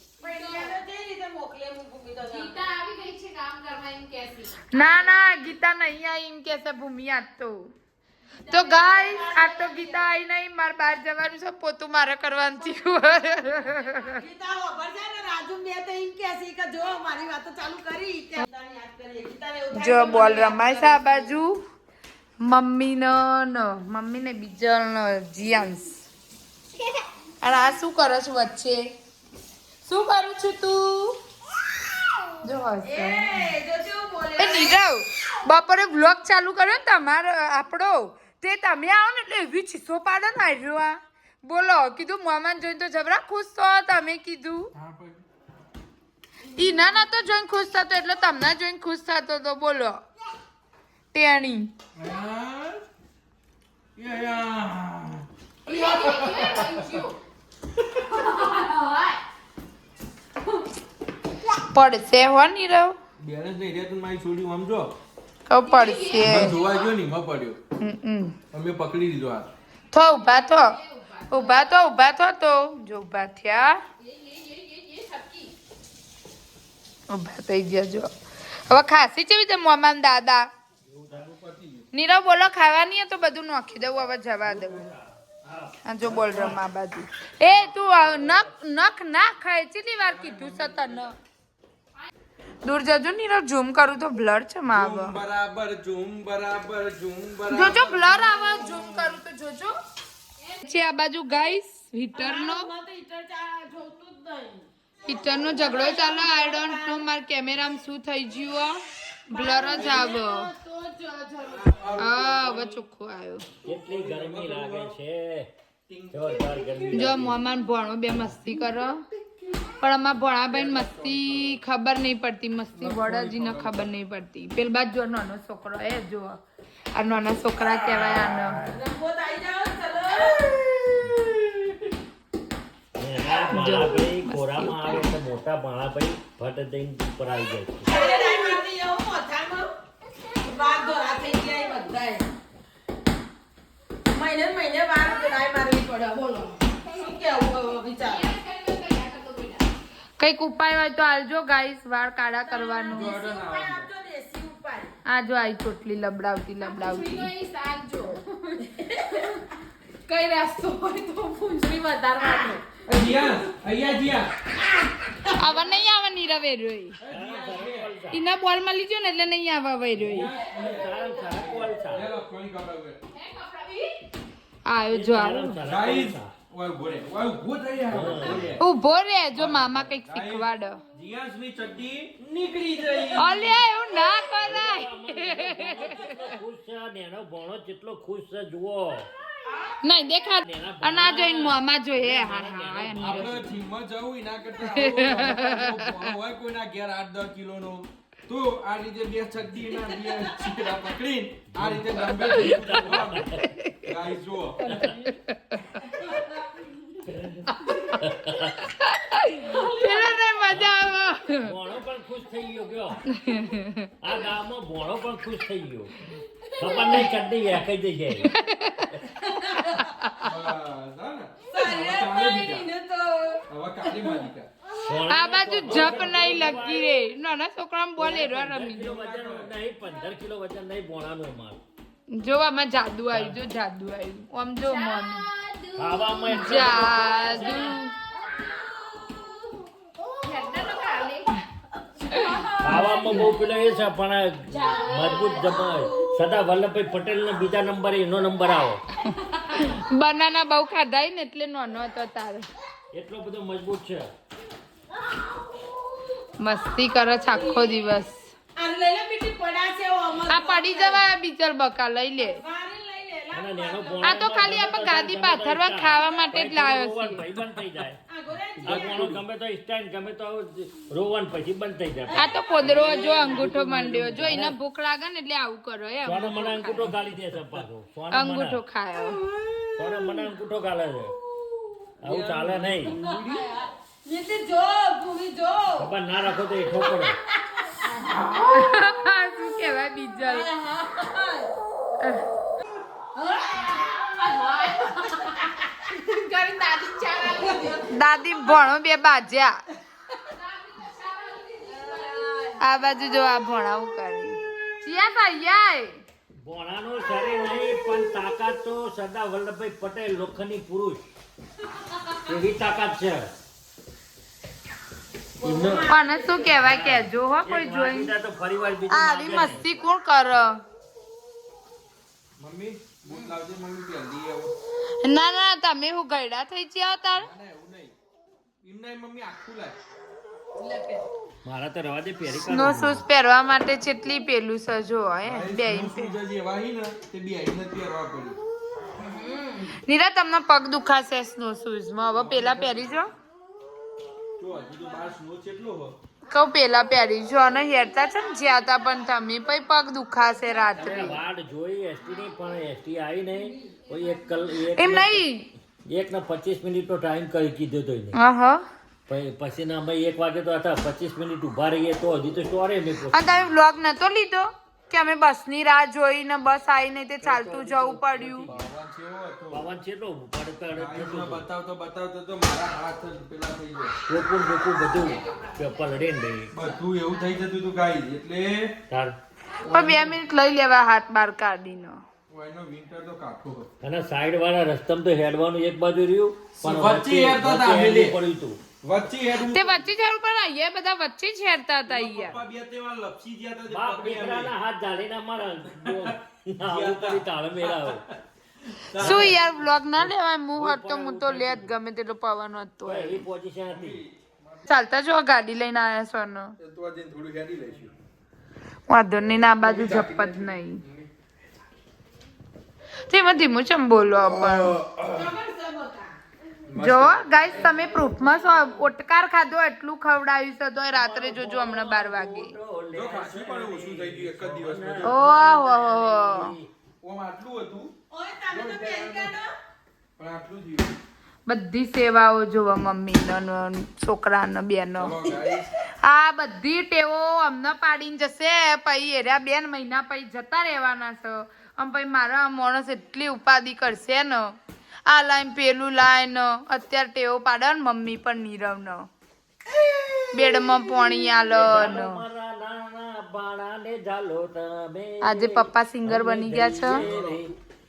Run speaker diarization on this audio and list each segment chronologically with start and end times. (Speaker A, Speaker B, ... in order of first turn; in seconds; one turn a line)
Speaker A: 0.2-0.8
Speaker B: 0.2-2.6
Speaker A: 2.3-5.2
Speaker C: 4.7-7.7
Speaker A: 8.4-10.0
Speaker C: 8.5-14.2
Speaker B: 14.0-21.4
Speaker C: 19.7-21.6
Speaker C: 22.4-26.1
Speaker C: 27.4-28.8
Speaker C: 29.9-31.2
Speaker C: 32.4-33.5
Speaker B: 32.8-34.8
Speaker C: 34.4-44.7
Speaker D: 44.7-45.2
Speaker C: 46.6-50.0
Speaker C: 51.1-51.7
Speaker D: 52.0-52.8
Speaker D: 54.0-57.0
Speaker A: 55.7-57.2
Speaker A: 57.9-59.2
Speaker C: 61.6-63.0
Speaker D: 63.2-65.0
Speaker C: 65.5-66.5
Speaker A: 65.6-66.7
Speaker D: 66.2-67.6
Speaker C: 67.8-68.4
Speaker D: 68.5-69.5
Speaker C: 69.9-70.8
Speaker A: 70.1-71.7
Speaker C: 71.3-73.8
Speaker A: 74.0-75.5
Speaker C: 77.1-78.1
Speaker C: 78.7-80.5
Speaker D: 80.9-81.9
Speaker C: 81.9-84.8
Speaker E: 84.5-86.6
Speaker C: 85.9-91.2
Speaker E: 87.7-88.5
Speaker D: 90.0-91.0
Speaker C: 92.6-95.2
Speaker D: 94.7-98.3
Speaker C: 97.5-99.7
Speaker B: 98.4-98.8
Speaker C: 100.7-102.7
Speaker B: 102.2-107.0
Speaker C: 105.0-110.5
Speaker B: 109.3-112.0
Speaker D: 109.7-110.1
Speaker D: 111.6-112.8
Speaker C: 112.0-113.5
Speaker D: 113.6-115.0
Speaker E: 113.6-115.5
Speaker D: 115.9-117.3
Speaker E: 116.1-117.4
Speaker C: 116.9-119.0
Speaker C: 119.8-126.4
Speaker D: 120.5-121.6
Speaker D: 122.8-123.9
Speaker C: 127.0-128.6
Speaker D: 127.6-128.8
Speaker B: 128.7-131.5
Speaker E: 133.0-137.9
Speaker C: 133.4-135.1
Speaker B: 137.8-139.8
Speaker B: 140.4-142.3
Speaker B: 144.1-148.3
Speaker A: 148.0-149.7
Speaker C: 150.2-153.2
Speaker B: 152.5-154.9
Speaker D: 152.9-153.9
Speaker C: 155.1-157.3
Speaker A: 156.6-159.5
Speaker B: 158.8-159.1
Speaker A: 160.1-162.8
Speaker D: 162.9-164.3
Speaker A: 165.3-165.8
Speaker C: 165.3-167.0
Speaker D: 167.0-167.9
Speaker E: 167.1-168.2
Speaker C: 168.1-170.3
Speaker D: 170.0-173.0
Speaker E: 170.3-172.1
Speaker A: 170.5-170.8
Speaker A: 173.1-174.1
Speaker C: 174.7-175.6
Speaker E: 174.9-176.3
Speaker D: 175.7-178.6
Speaker E: 177.9-178.6
Speaker C: 178.6-180.8
Speaker D: 179.3-183.6
Speaker C: 183.2-186.1
Speaker E: 184.2-189.1
Speaker C: 189.8-193.4
Speaker E: 190.4-193.6
Speaker D: 193.0-204.9
Speaker C: 194.6-195.9
Speaker E: 201.5-203.6
Speaker E: 204.6-205.1
Speaker C: 205.1-205.4
Speaker E: 207.1-208.7
Speaker C: 207.5-207.9
Speaker C: 208.8-211.5
Speaker A: 209.8-210.1
Speaker E: 211.4-213.1
Speaker C: 213.1-213.9
Speaker E: 214.0-216.1
Speaker E: 216.6-218.3
Speaker C: 218.2-218.9
Speaker C: 219.9-220.2
Speaker D: 220.2-222.7
Speaker B: 221.5-223.4
Speaker D: 223.5-224.5
Speaker E: 224.8-226.9
Speaker C: 225.1-228.9
Speaker D: 225.7-226.3
Speaker E: 228.0-231.6
Speaker D: 228.8-229.6
Speaker C: 232.1-235.3
Speaker E: 233.1-233.4
Speaker A: 234.6-237.8
Speaker E: 235.8-237.8
Speaker C: 236.3-237.9
Speaker B: 239.0-239.3
Speaker A: 240.2-241.4
Speaker A: 242.1-243.3
Speaker C: 242.1-243.3
Speaker E: 242.6-248.8
Speaker A: 244.5-246.1
Speaker A: 249.2-249.7
Speaker C: 249.5-252.5
Speaker E: 252.9-254.1
Speaker C: 256.4-258.3
Speaker A: 257.5-257.8
Speaker B: 258.6-261.1
Speaker C: 260.3-262.4
Speaker B: 262.2-264.4
Speaker E: 263.3-268.0
Speaker C: 264.0-267.4
Speaker B: 268.1-269.1
Speaker E: 268.6-274.6
Speaker D: 268.6-269.2
Speaker B: 272.1-273.4
Speaker C: 272.1-276.9
Speaker E: 276.0-278.6
Speaker C: 278.1-279.2
Speaker B: 279.1-280.3
Speaker E: 279.8-281.2
Speaker E: 282.0-283.0
Speaker D: 282.0-283.6
Speaker B: 282.9-283.4
Speaker B: 284.0-285.9
Speaker E: 285.8-287.2
Speaker B: 286.8-288.7
Speaker A: 288.1-288.5
Speaker C: 288.5-290.5
Speaker B: 290.3-291.5
Speaker A: 293.3-297.9
Speaker C: 297.9-299.6
Speaker A: 300.2-302.6
Speaker B: 301.9-302.6
Speaker C: 302.6-306.0
Speaker E: 306.4-311.0
Speaker E: 312.2-313.3
Speaker B: 315.4-316.6
Speaker E: 315.4-316.0
Speaker C: 315.9-318.1
Speaker E: 316.5-319.8
Speaker C: 318.9-320.6
Speaker D: 322.4-324.5
Speaker B: 323.1-323.4
Speaker C: 325.0-327.3
Speaker D: 327.2-327.9
Speaker D: 328.6-329.8
Speaker B: 330.6-331.0
Speaker E: 331.4-333.1
Speaker C: 332.3-336.1
Speaker D: 335.2-338.4
Speaker B: 338.9-339.7
Speaker C: 339.8-343.1
Speaker D: 342.2-343.0
Speaker D: 344.4-346.0
Speaker B: 344.5-345.1
Speaker C: 346.3-351.2
Speaker E: 350.8-355.3
Speaker B: 353.3-353.8
Speaker C: 354.7-355.5
Speaker E: 355.9-358.2
Speaker C: 358.1-358.6
Speaker E: 359.1-363.5
Speaker C: 363.1-368.5
Speaker E: 367.2-368.7
Speaker D: 368.5-369.6
Speaker E: 369.5-371.4
Speaker D: 370.7-374.0
Speaker E: 374.1-376.5
Speaker A: 375.0-376.0
Speaker D: 376.5-378.8
Speaker E: 378.9-379.2
Speaker C: 379.6-382.0
Speaker D: 382.3-383.7
Speaker E: 383.8-388.6
Speaker D: 386.6-388.2
Speaker D: 388.8-389.8
Speaker C: 389.5-392.4
Speaker D: 391.9-394.5
Speaker E: 393.7-398.1
Speaker D: 395.8-399.4
Speaker E: 399.0-399.4
Speaker C: 399.0-403.2
Speaker E: 400.5-401.8
Speaker E: 402.9-404.0
Speaker D: 403.7-404.7
Speaker C: 404.7-406.6
Speaker D: 406.6-407.9
Speaker C: 408.9-410.8
Speaker D: 409.5-411.1
Speaker C: 413.1-414.7
Speaker D: 414.2-415.4
Speaker B: 415.1-416.1
Speaker D: 416.7-417.9
Speaker C: 416.8-422.6
Speaker E: 420.9-426.7
Speaker D: 422.9-425.2
Speaker C: 425.0-426.6
Speaker D: 427.0-427.9
Speaker B: 428.1-429.5
Speaker D: 428.5-429.3
Speaker D: 430.2-431.0
Speaker C: 431.5-435.1
Speaker D: 435.0-435.7
Speaker C: 436.0-444.5
Speaker C: 445.1-449.1
Speaker B: 449.8-450.2
Speaker C: 450.3-452.2
Speaker E: 451.5-457.5
Speaker C: 455.2-457.1
Speaker D: 456.8-457.4